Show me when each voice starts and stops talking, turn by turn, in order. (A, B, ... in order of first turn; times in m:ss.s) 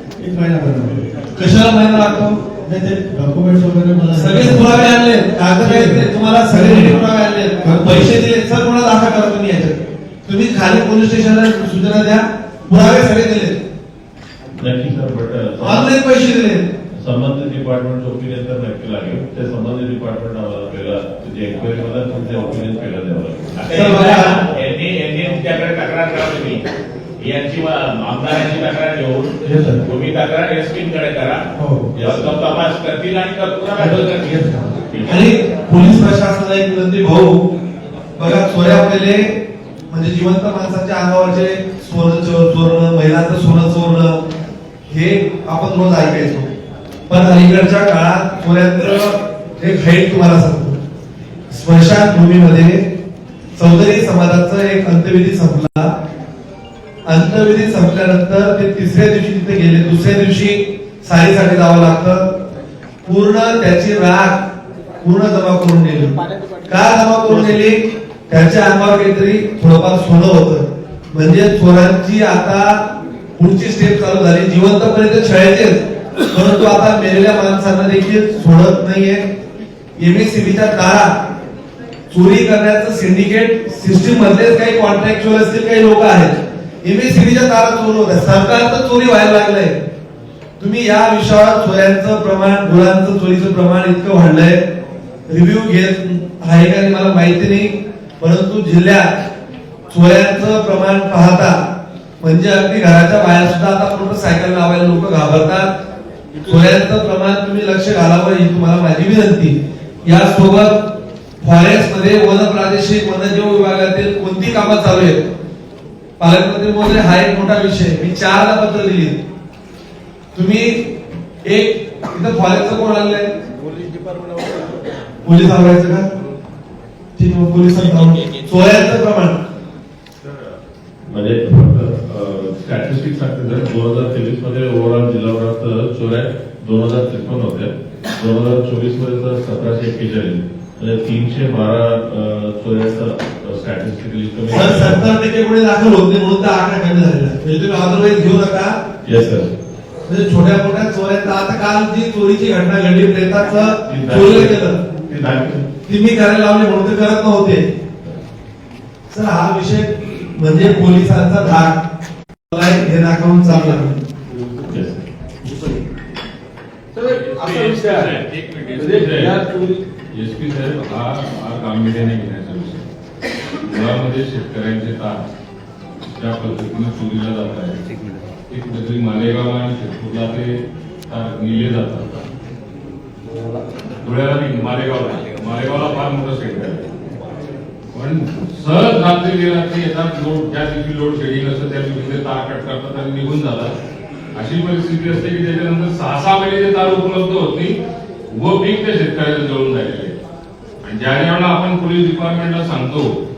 0:00.2-0:01.1 A
0:01.3-0:02.5 B
0:02.6-0:04.9 A
0:04.1-0:13.6 B
0:05.5-0:07.0 A
0:07.6-0:08.2 A
0:14.6-0:15.9 C
0:15.6-0:16.7 B
0:16.9-0:23.9 C
0:23.5-0:26.6 D
0:23.7-0:24.4 B
0:27.2-0:31.4 D
0:29.4-0:29.8 A
0:31.5-0:31.9 A
0:31.9-0:32.4 C
0:32.0-0:35.2 D
0:33.8-0:34.7 A
0:35.0-0:37.5 B
0:38.2-0:44.2 B
0:44.9-0:46.5 B
0:47.1-0:50.8 B
0:51.5-0:52.9 B
0:53.6-0:56.0 B
0:57.0-1:02.4 B
1:03.0-1:04.5 B
1:05.0-1:19.3 B
1:20.0-1:21.2 B
1:22.1-1:29.8 B
1:30.6-1:34.6 B
1:35.3-1:39.2 B
1:39.9-1:41.6 B
1:42.2-1:45.7 B
1:46.4-1:55.3 B
1:56.2-1:59.2 B
2:00.3-2:00.9 B
2:01.4-2:03.3 B
2:05.2-2:06.1 B
2:07.2-2:09.4 B
2:10.2-2:25.0 C
2:24.5-2:28.8 B
2:29.0-2:29.5 C
2:30.0-2:34.8 B
2:33.8-2:35.7 C
2:35.9-2:37.7 B
2:39.1-2:41.8 B
2:42.5-2:44.0 B
2:44.6-2:45.0 C
2:46.9-2:48.2 E
2:47.0-2:49.2 D
2:48.6-2:49.3 F
2:48.8-2:49.8 E
2:50.1-2:52.8 F
2:53.6-2:55.2 F
2:56.1-2:57.8 F
2:58.5-3:02.2 F
3:04.0-3:06.9 F
3:07.9-3:13.7 F
3:14.3-3:17.8 F
3:18.3-3:20.2 F
3:20.8-3:23.1 F